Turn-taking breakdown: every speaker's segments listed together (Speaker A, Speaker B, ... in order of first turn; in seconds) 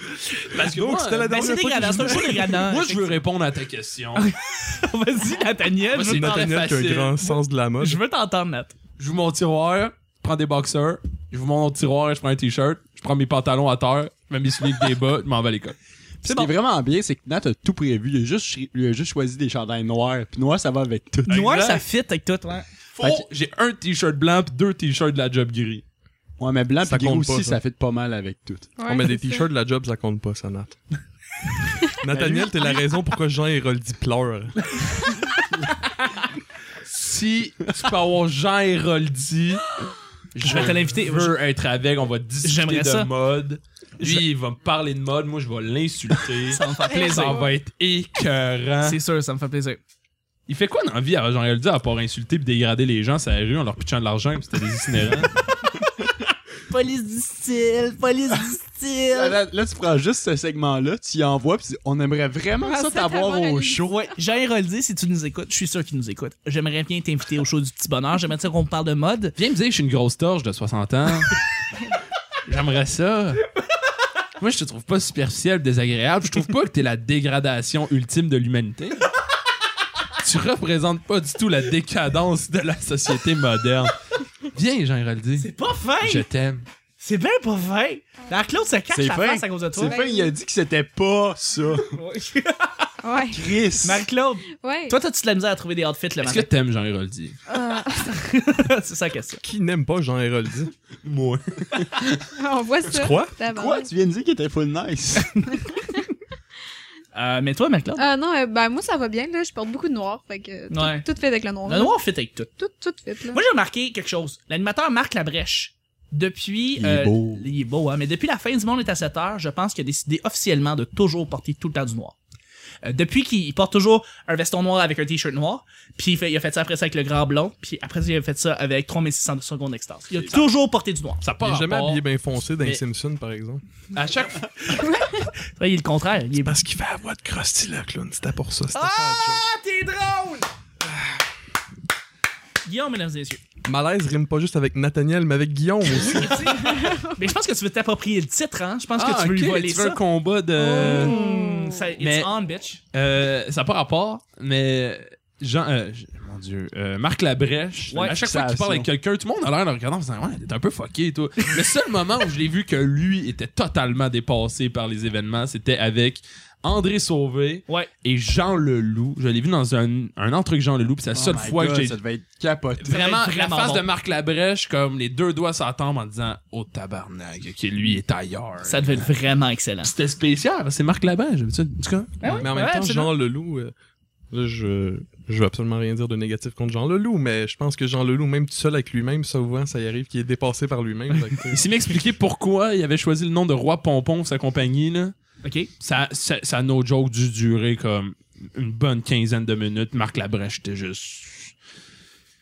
Speaker A: 0.5-4.3, 5.9-7.2, 9.0-15.8, 21.3-21.8, 22.9-25.8, 36.9-39.8, 40.4-49.0, 50.5-55.3, 69.4-71.4, 72.5-73.5, 74.4-79.1, 80.2-85.5, 86.0-86.6, 96.2-97.4, 101.0-102.0, 131.2-132.8, 133.9-134.5, 149.0-151.2, 152.0-152.3, 152.9-172.0, 172.8-179.1, 179.8-182.5, 191.5-195.1, 195.8-201.5
Speaker B: 0.5-2.6, 6.0-8.0, 26.8-27.6, 28.9-30.8, 31.9-34.8, 99.4-100.7, 102.9-103.3, 131.4-133.6, 136.4-139.5, 140.9-141.2, 143.7-146.7, 182.4-183.7, 184.3-191.6
Speaker C: 1.3-3.2, 4.2-6.7, 7.2-8.7, 16.2-16.5, 21.3-22.6, 40.4-41.4, 42.4-43.1, 46.5-47.4, 48.8-49.8, 56.7-59.4, 64.2-69.3, 85.4-86.3, 87.0-90.0, 91.9-92.9, 93.8-96.5, 97.9-99.4, 107.2-108.0, 110.7-111.1, 111.7-112.5, 113.3-122.2, 122.8-131.2, 134.7-136.6, 138.7-140.5, 142.7-143.4, 146.0-150.0, 150.6-152.8, 157.9-158.2, 172.9-173.8, 178.6-179.9, 182.2-183.1, 195.4-195.7
Speaker D: 16.2-21.4, 23.0-23.2, 26.4-28.7, 32.1-32.8, 59.1-64.1, 88.9-92.0, 93.3-94.0, 103.4-105.4, 116.8-117.5, 158.0-158.9, 171.1-173.1
Speaker E: 28.8-29.5, 46.9-47.5, 62.6-64.0, 89.8-90.3, 93.0-93.4, 94.5-95.0, 97.5-98.2, 102.3-103.9, 105.6-106.0, 108.0-112.0, 112.6-113.4, 134.7-135.3, 146.5-147.2, 150.6-151.8